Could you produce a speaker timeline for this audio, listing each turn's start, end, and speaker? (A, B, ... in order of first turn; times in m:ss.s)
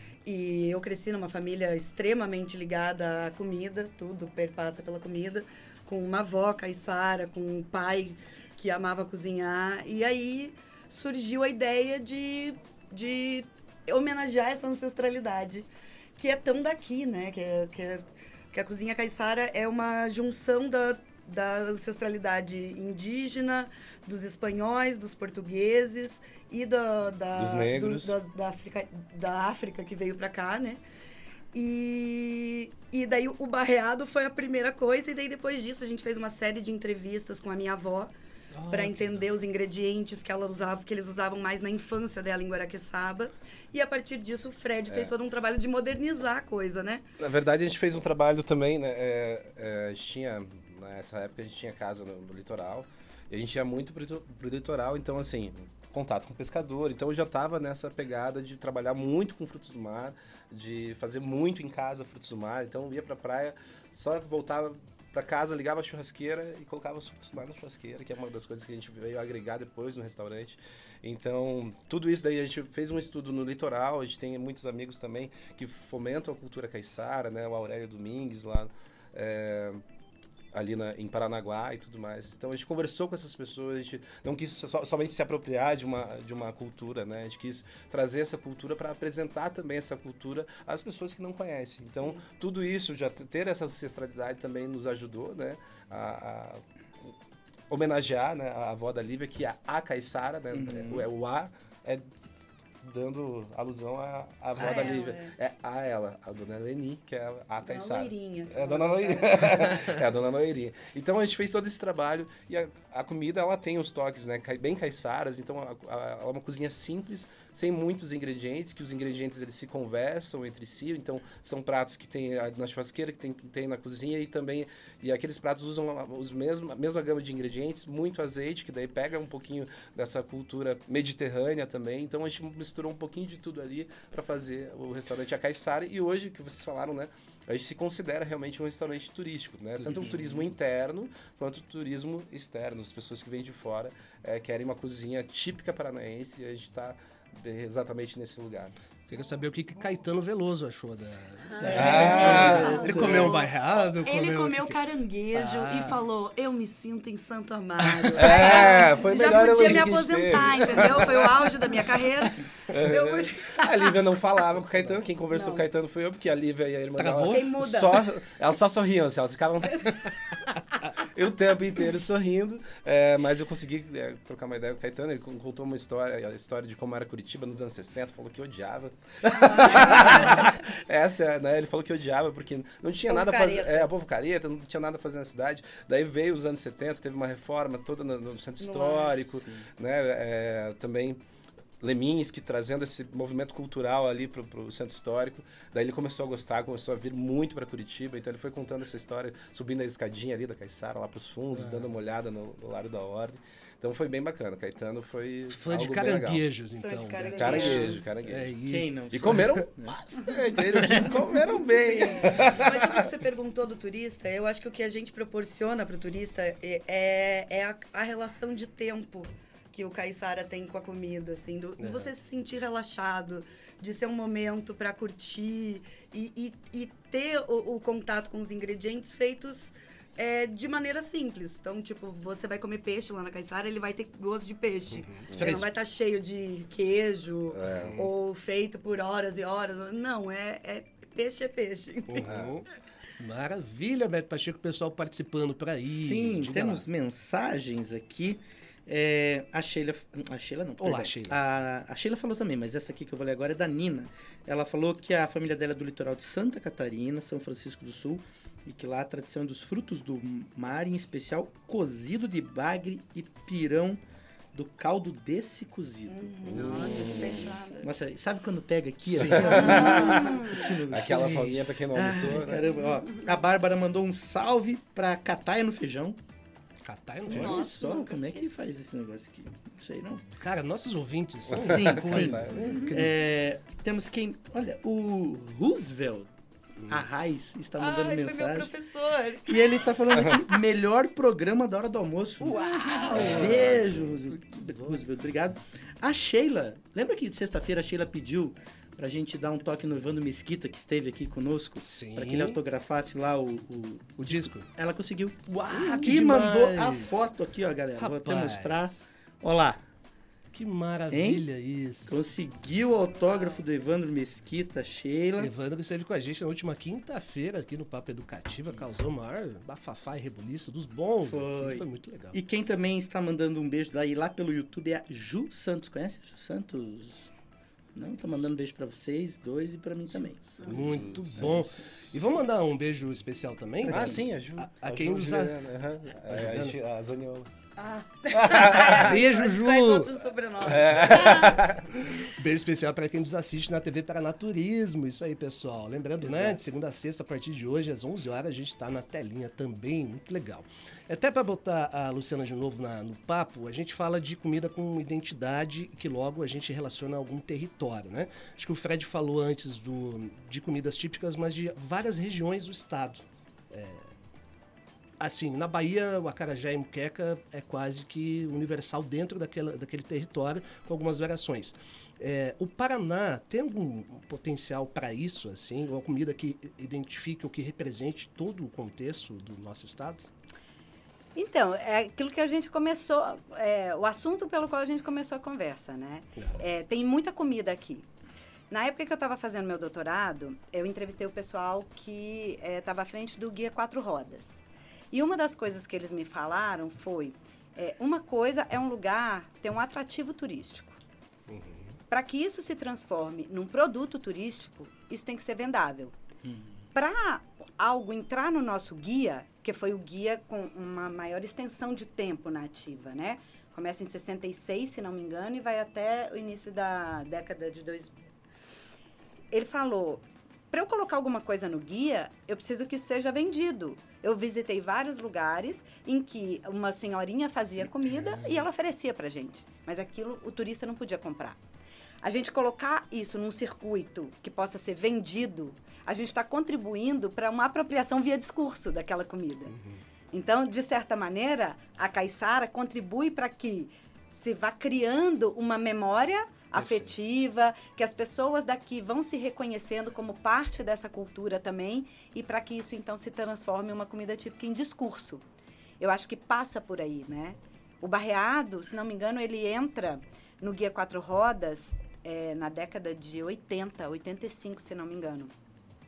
0:00.2-0:30.8 A
0:27.4-0:28.2 B
0:31.5-0:38.1 A
0:38.6-0:39.3 C
0:38.7-0:47.0 A
0:47.2-1:19.8 B
1:20.5-1:37.1 B
1:31.9-1:32.2 A
1:37.7-1:42.1 B
1:40.5-1:41.1 D
1:42.8-2:28.7 B
1:44.6-1:45.3 A
1:47.6-1:49.8 A
2:29.1-2:34.8 C
2:31.7-2:33.2 D
2:31.7-2:33.5 A
2:31.7-2:33.4 B
2:34.0-2:44.0 A
2:35.3-2:36.0 C
2:38.1-2:41.8 B
2:42.7-2:50.1 B
2:44.6-2:45.0 C
2:45.3-2:45.6 A
2:47.0-2:47.5 C
2:47.3-2:48.0 A
2:50.8-3:11.2 B
2:59.4-3:00.5 A
3:03.1-3:03.9 A
3:08.6-3:09.2 A
3:11.8-3:26.4 B
3:21.5-3:21.9 C
3:25.5-3:29.6 C
3:26.8-3:28.0 A
3:27.2-3:28.6 B
3:28.7-3:30.0 D
3:29.1-3:33.1 B
3:30.6-3:31.1 D
3:31.7-4:02.3 A
3:41.8-3:42.1 C
3:55.0-3:55.7 C
3:55.3-3:55.7 B
3:57.5-3:58.1 B
3:57.8-3:58.1 C
4:02.1-4:02.6 C
4:02.2-4:02.6 B
4:03.2-4:06.8 C
4:05.9-4:24.0 D
4:10.8-4:11.4 C
4:24.5-4:36.2 D
4:26.1-4:27.9 A
4:26.5-4:27.6 B
4:29.1-4:29.7 C
4:29.2-4:32.6 B
4:29.4-4:30.6 A
4:30.9-4:31.6 C
4:36.8-4:37.6 C
4:37.3-4:40.3 D
4:37.3-4:38.7 A
4:40.4-4:43.1 C
4:41.5-4:42.9 B
4:41.6-4:46.3 D
4:46.8-4:47.1 C
4:46.9-4:48.7 D
4:47.8-4:49.8 A
4:49.5-5:09.8 D
4:52.4-4:55.0 C
5:01.8-5:02.6 C
5:04.2-5:04.7 C
5:05.5-5:07.3 C
5:08.0-5:08.9 C
5:10.5-5:12.2 C
5:11.1-5:11.4 D
5:12.1-5:15.5 D
5:15.4-5:22.4 C
5:21.2-5:27.3 D
5:28.0-5:30.6 D
5:30.6-5:31.5 B
5:30.6-5:36.8 C
5:31.4-5:31.8 D
5:33.9-5:37.5 B
5:37.8-5:41.6 A
5:38.3-5:39.3 B
5:38.9-5:40.2 C
5:40.6-5:41.9 B
5:40.7-6:04.1 C
5:46.2-5:46.5 B
6:05.2-6:20.3 C
6:21.4-6:28.1 E
6:26.4-6:26.6 C
6:28.7-6:41.0 E
6:41.5-6:42.0 C
6:42.1-6:46.1 E
6:46.4-6:46.7 D
6:46.9-6:58.1 E
6:59.5-7:11.6 E
7:12.2-7:19.8 E
7:19.7-7:20.0 C
7:20.3-7:35.4 E
7:36.0-7:45.5 E